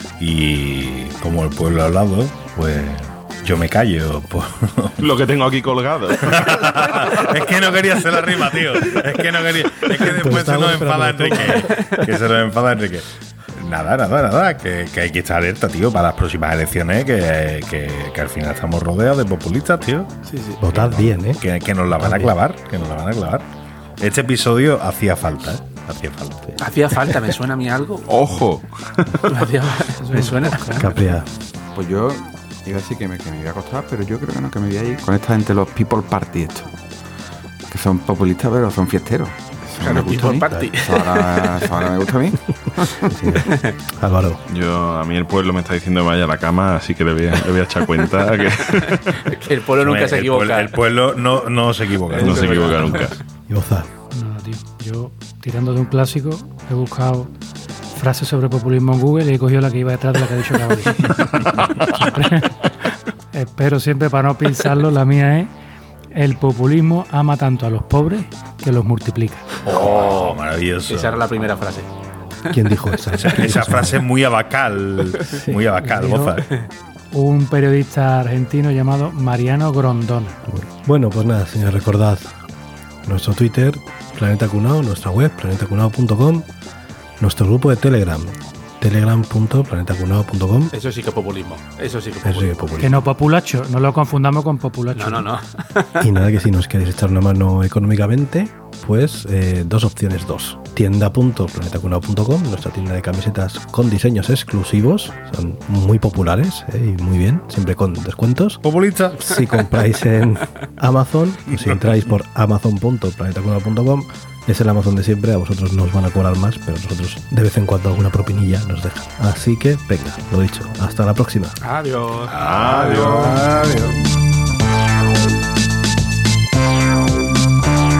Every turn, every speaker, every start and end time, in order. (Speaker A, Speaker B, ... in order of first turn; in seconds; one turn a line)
Speaker A: 0.2-5.0
Speaker B: 5.0-7.2
Speaker A: 6.2-20.1
Speaker C: 9.9-12.1
Speaker D: 20.2-20.6
Speaker C: 20.6-21.4
Speaker A: 20.7-23.4
Speaker C: 21.9-22.3
Speaker A: 24.0-26.4
Speaker D: 26.6-28.1
Speaker B: 28.1-29.3
Speaker D: 29.3-30.8
Speaker E: 30.0-30.9
Speaker C: 30.8-31.3
Speaker F: 31.7-36.7
Speaker F: 37.7-42.9
Speaker D: 39.8-41.9
Speaker C: 40.4-40.7
Speaker C: 42.7-44.4
Speaker D: 43.4-43.8
Speaker B: 44.5-49.3
Speaker D: 48.6-50.8
Speaker A: 49.8-52.8
Speaker D: 52.1-53.1
Speaker B: 52.2-53.2
Speaker C: 53.5-53.9
Speaker E: 54.1-57.3
Speaker E: 58.0-62.6
Speaker E: 63.3-65.5
Speaker E: 66.1-69.5
Speaker A: 69.6-71.2
Speaker D: 69.7-71.9
Speaker C: 72.5-74.0
Speaker A: 73.2-76.5
Speaker C: 75.3-75.6
Speaker E: 75.8-76.5
Speaker E: 77.1-80.4
Speaker C: 80.5-82.3
Speaker C: 83.0-86.5
Speaker C: 87.2-90.7
Speaker D: 90.7-92.9
Speaker C: 92.2-93.0
Speaker E: 92.8-95.3
Speaker D: 94.9-96.1
Speaker C: 96.0-108.6
Speaker A: 108.6-109.2
Speaker C: 109.1-121.6
Speaker D: 121.6-122.3
Speaker B: 122.3-123.5
Speaker A: 122.7-123.9